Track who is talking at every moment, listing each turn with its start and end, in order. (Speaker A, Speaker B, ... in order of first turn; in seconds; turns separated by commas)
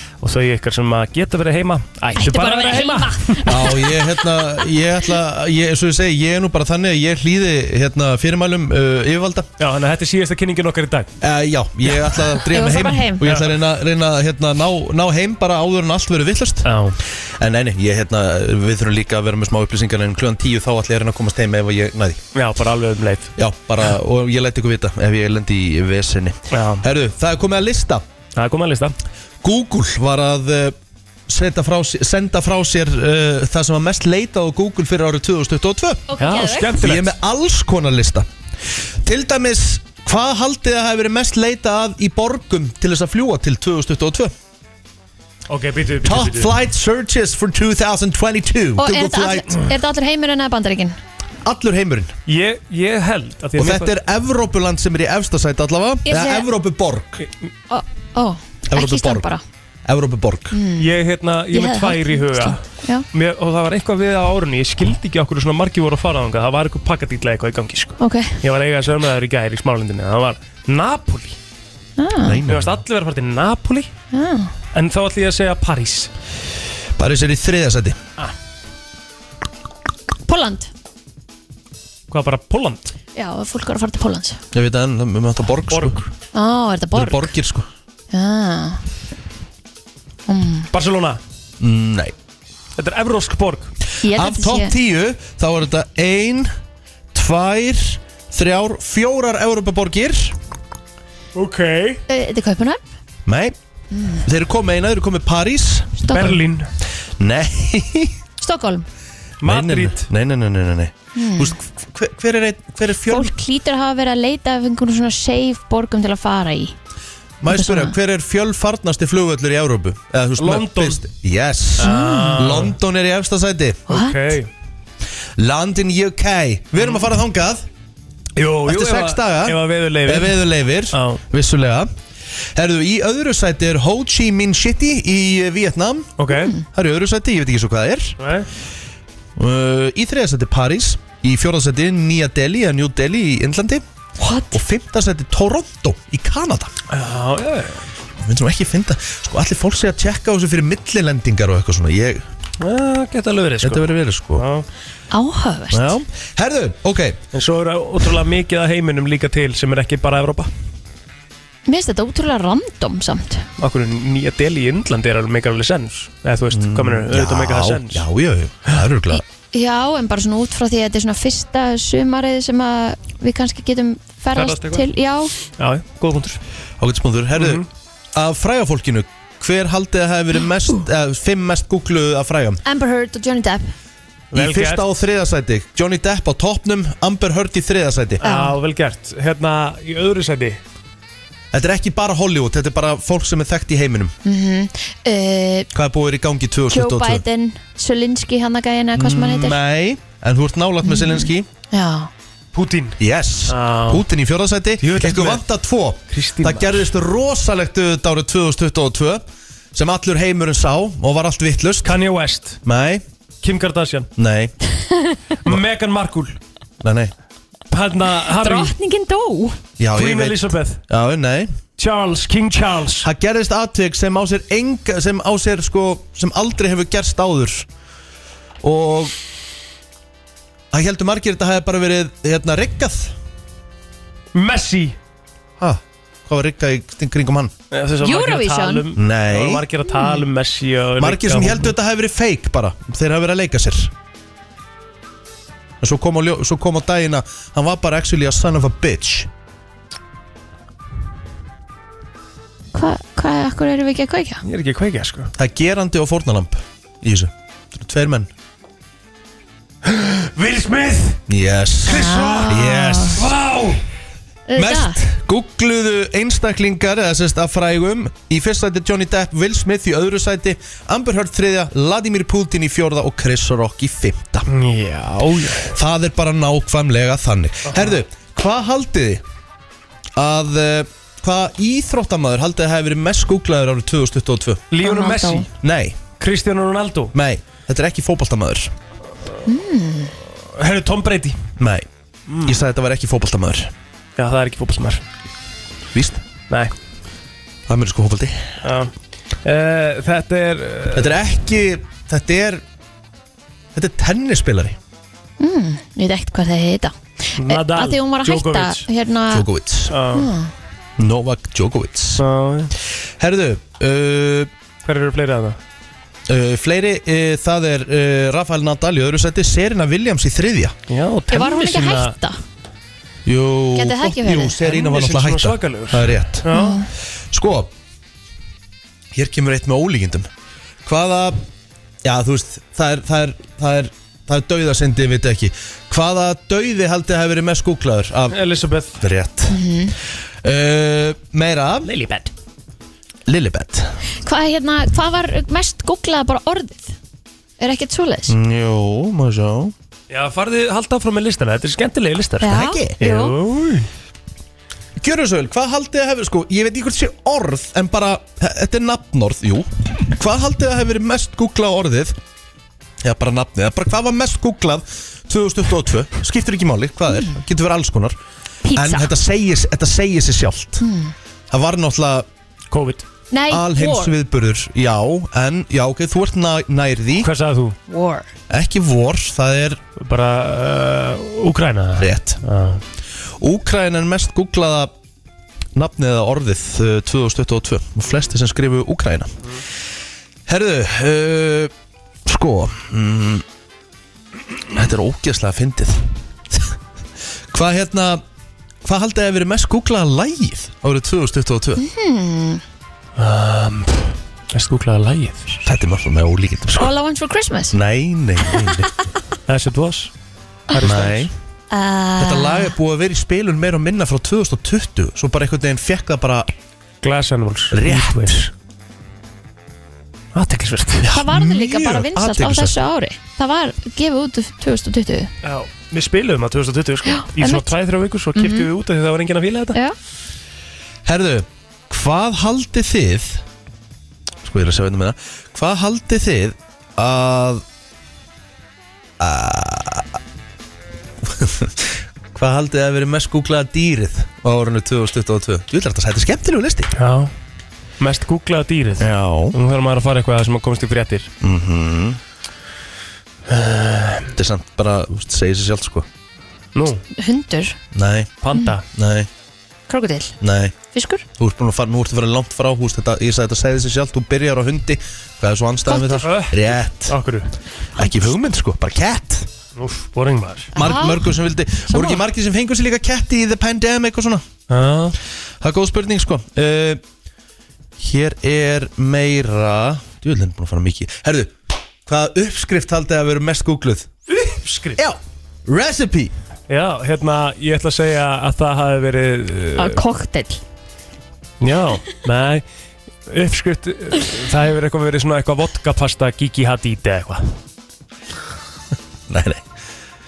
Speaker A: 0.2-3.4, Speaker B: 2.1-4.6, Speaker C: 3.5-9.5, Speaker A: 9.6-11.1, Speaker C: 11.2-16.7, Speaker B: 12.4-13.2, Speaker A: 13.2-13.6, Speaker A: 16.6-17.0, Speaker C: 17.4-22.2, Speaker A: 22.3-23.3, Speaker C: 23.4-28.0, Speaker A: 26.5-26.8, Speaker A: 28.4-28.9, Speaker C: 29.4-30.7, Speaker C: 31.3-36.0, Speaker B: 36.1-36.8, Speaker A: 36.2-37.1, Speaker C: 36.8-38.3, Speaker C: 39.0-44.3, Speaker A: 45.5-46.5, Speaker C: 46.0-49.6, Speaker B: 48.8-51.0, Speaker C: 51.4-52.1, Speaker A: 52.3-53.9, Speaker C: 53.6-57.2, Speaker B: 56.0-56.5, Speaker B: 57.7-59.4, Speaker C: 58.7-59.3, Speaker C: 59.9-60.6, Speaker B: 60.5-60.9, Speaker A: 60.8-71.4, Speaker B: 61.5-63.0, Speaker B: 68.0-68.4, Speaker B: 72.0-72.4, Speaker C: 72.2-72.8, Speaker A: 72.5-73.9, Speaker B: 74.1-74.5, Speaker A: 74.7-76.1, Speaker C: 77.0-78.0, Speaker B: 80.2-80.7, Speaker A: 82.1-82.9, Speaker B: 83.1-84.4, Speaker C: 84.5-86.0, Speaker A: 85.7-86.1, Speaker B: 86.3-87.3, Speaker C: 86.9-87.7, Speaker B: 88.1-88.8, Speaker B: 90.3-90.7, Speaker A: 90.7-91.2, Speaker C: 91.6-92.1, Speaker A: 92.8-93.7, Speaker B: 94.0-94.7, Speaker C: 94.1-96.5, Speaker C: 97.1-100.3, Speaker A: 101.3-102.0, Speaker B: 102.1-102.8, Speaker C: 103.2-103.5, Speaker B: 103.9-104.2, Speaker C: 104.2-105.9, Speaker B: 106.0-106.4, Speaker A: 106.1-106.7, Speaker C: 107.2-108.2, Speaker B: 108.4-108.8, Speaker A: 109.4-110.1, Speaker C: 109.4-113.3, Speaker B: 111.1-111.5, Speaker B: 113.0-116.7, Speaker C: 117.4-123.8, Speaker B: 117.5-117.9, Speaker A: 120.4-121.0, Speaker A: 121.8-122.7, Speaker B: 121.8-122.5, Speaker A: 123.9-124.5, Speaker B: 123.9-124.3, Speaker C: 125.4-127.6, Speaker A: 128.4-130.4, Speaker C: 128.7-131.9, Speaker A: 130.9-131.2, Speaker C: 132.5-136.1, Speaker A: 136.2-136.5, Speaker C: 136.6-138.2, Speaker A: 138.2-138.5, Speaker C: 139.4-143.8, Speaker B: 144.2-144.6, Speaker C: 144.5-146.7, Speaker A: 146.9-147.8, Speaker C: 148.2-152.2, Speaker A: 152.6-154.7, Speaker C: 153.6-154.5, Speaker B: 155.1-156.0, Speaker C: 155.7-157.2, Speaker A: 157.3-160.5, Speaker B: 161.7-163.5, Speaker A: 163.6-168.0, Speaker C: 166.5-169.2, Speaker B: 169.1-175.3, Speaker A: 174.3-174.9, Speaker A: 175.5-176.4, Speaker C: 176.8-182.6, Speaker A: 177.3-177.7, Speaker B: 182.6-183.7, Speaker A: 184.3-184.8, Speaker C: 184.3-188.2, Speaker A: 188.2-190.6, Speaker B: 188.2-188.6, Speaker C: 191.5-194.1, Speaker B: 194.2-195.7, Speaker C: 195.7-197.2, Speaker B: 196.7-199.6, Speaker C: 198.9-201.5, Speaker B: 200.8-202.1, Speaker A: 202.5-204.1, Speaker C: 203.0-209.2, Speaker A: 204.8-205.4, Speaker A: 206.1-206.9, Speaker C: 209.7-212.0, Speaker A: 211.8-212.6, Speaker C: 212.6-213.0, Speaker A: 213.4-214.1, Speaker C: 214.2-214.6, Speaker A: 215.4-216.4, Speaker C: 216.8-217.1, Speaker A: 217.7-218.7, Speaker B: 218.4-219.6, Speaker C: 219.8-221.5, Speaker A: 219.9-220.8, Speaker A: 221.8-223.1, Speaker C: 223.0-227.7, Speaker C: 228.6-229.1, Speaker C: 230.7-233.1, Speaker A: 234.3-234.9, Speaker C: 235.6-237.5, Speaker A: 237.7-241.7, Speaker B: 238.0-238.9, Speaker C: 238.9-239.6, Speaker B: 239.9-240.2, Speaker C: 241.0-243.9, Speaker C: 245.8-249.3, Speaker B: 252.7-254.4, Speaker A: 254.4-255.3, Speaker C: 255.3-258.3, Speaker A: 259.8-261.2, Speaker C: 261.3-263.3, Speaker B: 261.9-263.2, Speaker A: 261.9-262.5, Speaker A: 263.1-263.8, Speaker B: 264.5-265.0, Speaker C: 264.6-274.5, Speaker A: 274.5-275.7, Speaker C: 275.7-279.2, Speaker A: 277.7-277.9, Speaker C: 280.1-284.6, Speaker A: 284.7-285.5, Speaker B: 284.8-285.4, Speaker C: 285.6-286.0, Speaker A: 286.2-287.1, Speaker C: 287.1-288.7, Speaker B: 289.4-290.1, Speaker A: 290.5-291.4, Speaker C: 291.6-291.9, Speaker A: 292.3-292.6, Speaker C: 292.4-293.7, Speaker A: 294.2-295.0, Speaker C: 295.9-296.2, Speaker C: 297.7-298.5, Speaker A: 298.6-298.9, Speaker A: 299.4-301.1, Speaker C: 300.9-302.6, Speaker C: 303.7-304.8, Speaker B: 305.4-309.4, Speaker A: 307.4-308.9, Speaker C: 309.3-309.9, Speaker A: 309.9-310.3, Speaker B: 310.1-310.5, Speaker C: 311.0-312.2, Speaker A: 312.2-312.7, Speaker C: 313.2-314.5, Speaker A: 314.8-315.6, Speaker C: 316.3-320.8, Speaker A: 320.9-322.1, Speaker B: 321.3-322.4, Speaker C: 323.2-326.5, Speaker B: 323.7-324.6, Speaker A: 324.6-326.8, Speaker B: 326.5-326.9, Speaker C: 327.3-327.7, Speaker C: 329.1-330.3, Speaker C: 330.8-331.4, Speaker C: 332.0-338.4, Speaker A: 338.3-339.0, Speaker C: 339.0-339.6, Speaker B: 339.5-339.9, Speaker C: 340.4-341.9, Speaker A: 341.8-342.3, Speaker C: 343.3-343.9, Speaker B: 344.2-346.9, Speaker B: 347.6-348.3, Speaker C: 348.3-349.7, Speaker A: 350.1-353.9, Speaker B: 352.4-353.4, Speaker C: 352.4-353.0, Speaker C: 355.0-362.2, Speaker C: 363.0-368.2, Speaker B: 367.1-367.4, Speaker B: 368.6-369.1, Speaker C: 368.7-370.8, Speaker B: 370.8-371.1, Speaker C: 371.5-372.3, Speaker A: 372.7-373.0, Speaker B: 373.3-374.1, Speaker C: 373.5-377.3, Speaker A: 377.2-377.8, Speaker B: 377.9-378.3, Speaker C: 378.5-379.8, Speaker A: 380.0-382.8, Speaker C: 382.0-382.4, Speaker C: 383.4-384.9, Speaker C: 385.7-389.4, Speaker C: 390.5-391.7, Speaker C: 392.2-393.4, Speaker C: 394.7-396.7, Speaker C: 397.5-398.2, Speaker C: 398.8-401.8, Speaker B: 401.8-402.6, Speaker A: 403.2-405.6, Speaker C: 405.6-406.9, Speaker B: 406.8-407.8, Speaker C: 407.7-408.9, Speaker A: 409.5-410.1, Speaker A: 410.7-411.3, Speaker C: 410.8-411.3, Speaker B: 411.7-412.7, Speaker C: 412.2-416.5, Speaker A: 417.0-418.5, Speaker C: 417.7-418.5, Speaker A: 420.3-421.1, Speaker C: 421.0-422.8, Speaker B: 421.1-425.3, Speaker A: 425.4-429.8, Speaker B: 427.1-427.7, Speaker B: 428.3-428.7, Speaker C: 431.0-433.4, Speaker C: 434.4-437.6, Speaker C: 439.2-440.2, Speaker C: 441.2-446.9, Speaker A: 446.9-447.3, Speaker A: 448.0-451.3, Speaker C: 449.0-449.6, Speaker C: 451.4-452.2, Speaker A: 453.5-454.3, Speaker C: 454.3-456.1, Speaker A: 456.7-457.0, Speaker B: 457.1-457.8, Speaker C: 457.9-458.3, Speaker A: 458.4-458.8, Speaker C: 458.9-459.3, Speaker B: 459.9-460.4, Speaker C: 460.4-460.7, Speaker B: 460.9-461.2, Speaker C: 461.4-467.2, Speaker B: 465.9-466.2, Speaker A: 466.2-467.5, Speaker C: 467.9-469.5, Speaker A: 469.8-470.7, Speaker B: 470.7-471.3, Speaker C: 470.7-474.4, Speaker B: 471.9-472.2, Speaker A: 474.7-475.1, Speaker C: 475.6-477.0, Speaker C: 478.0-481.5, Speaker C: 482.1-484.1, Speaker A: 484.3-485.0, Speaker C: 485.0-486.3, Speaker A: 486.7-490.0, Speaker B: 489.8-490.6, Speaker A: 491.6-492.6, Speaker A: 493.3-497.5, Speaker C: 499.3-499.6